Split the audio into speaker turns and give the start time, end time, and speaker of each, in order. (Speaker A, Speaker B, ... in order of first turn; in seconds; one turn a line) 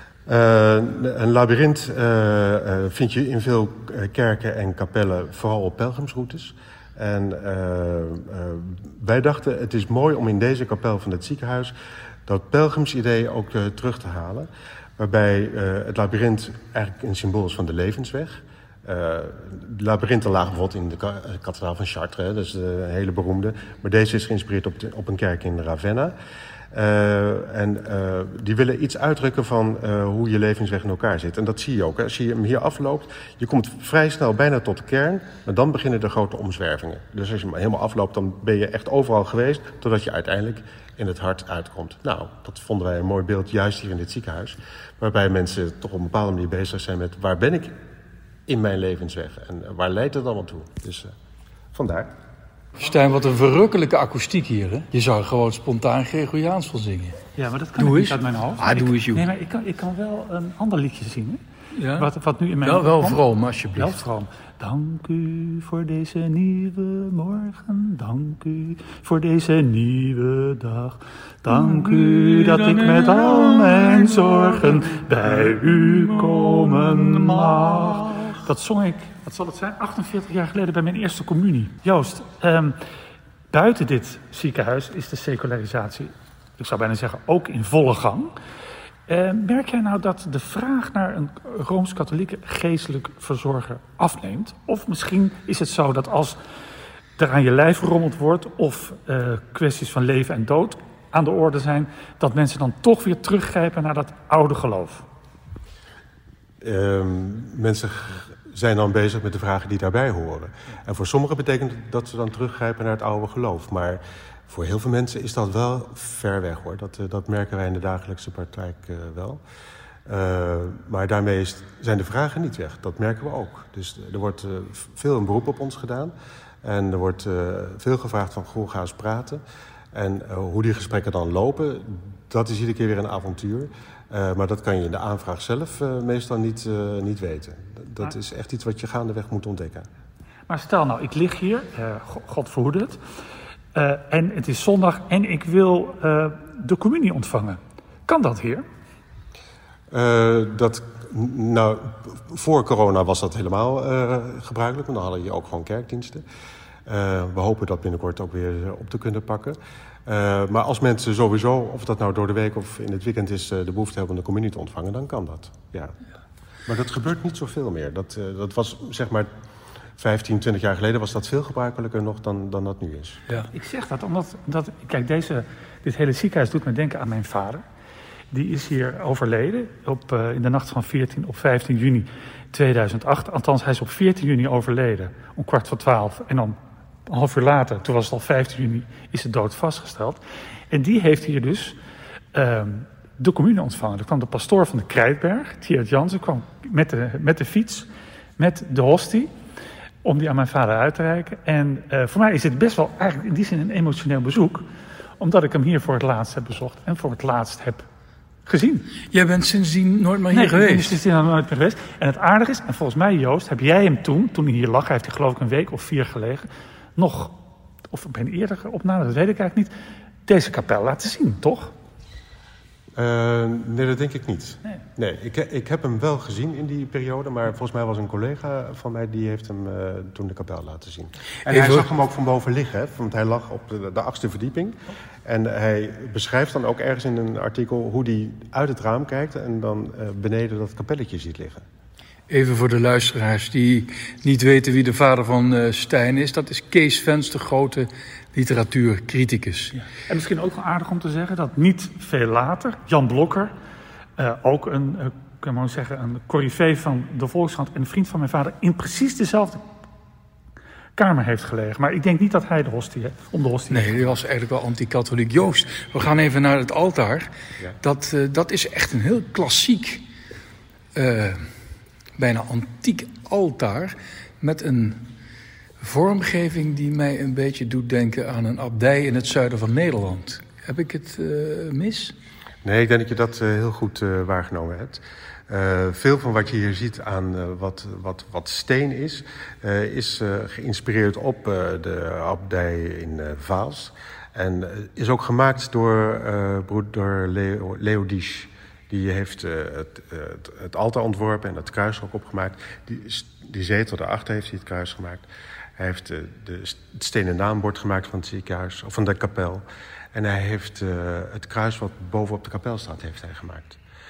Speaker A: 0.2-11.7
Speaker A: 12.2-26.1
Speaker A: 26.7-47.8
Speaker A: 48.5-51.1
Speaker A: 51.7-52.1
Speaker B: 52.8-57.2
Speaker C: 57.4-61.4
Speaker B: 57.8-59.2
Speaker B: 61.8-62.1
Speaker C: 62.0-63.2
Speaker B: 62.6-64.0
Speaker C: 63.8-82.8
Speaker B: 71.5-74.6
Speaker B: 76.4-78.2
Speaker C: 83.5-88.3
Speaker C: 89.1-96.4
Speaker C: 97.2-105.0
Speaker A: 106.6-119.4
Speaker A: 120.0-129.4
Speaker A: 129.9-139.9
Speaker C: 140.5-143.0
Speaker C: 143.7-148.6
Speaker A: 149.9-156.2
Speaker A: 156.8-165.9
Speaker A: 166.7-169.3
Speaker A: 170.0-173.2
Speaker C: 173.5-177.6
Speaker C: 178.3-186.6
Speaker C: 187.1-190.2
Speaker C: 190.7-191.8
Speaker C: 192.3-197.9
Speaker C: 198.4-199.3
Speaker C: 200.0-204.6
Speaker C: 205.2-207.8
Speaker C: 208.4-208.9
Speaker B: 209.1-211.0
Speaker C: 210.3-217.3
Speaker C: 217.9-219.7
Speaker C: 220.3-221.7
Speaker A: 223.0-241.6
Speaker B: 231.5-231.9
Speaker B: 242.3-249.7
Speaker C: 250.1-253.5
Speaker C: 254.2-259.6
Speaker C: 261.0-264.1
Speaker B: 263.7-267.3
Speaker B: 267.8-270.0
Speaker B: 270.9-271.5
Speaker B: 272.2-275.1
Speaker B: 275.8-282.1
Speaker A: 282.6-305.2
Speaker A: 305.8-313.8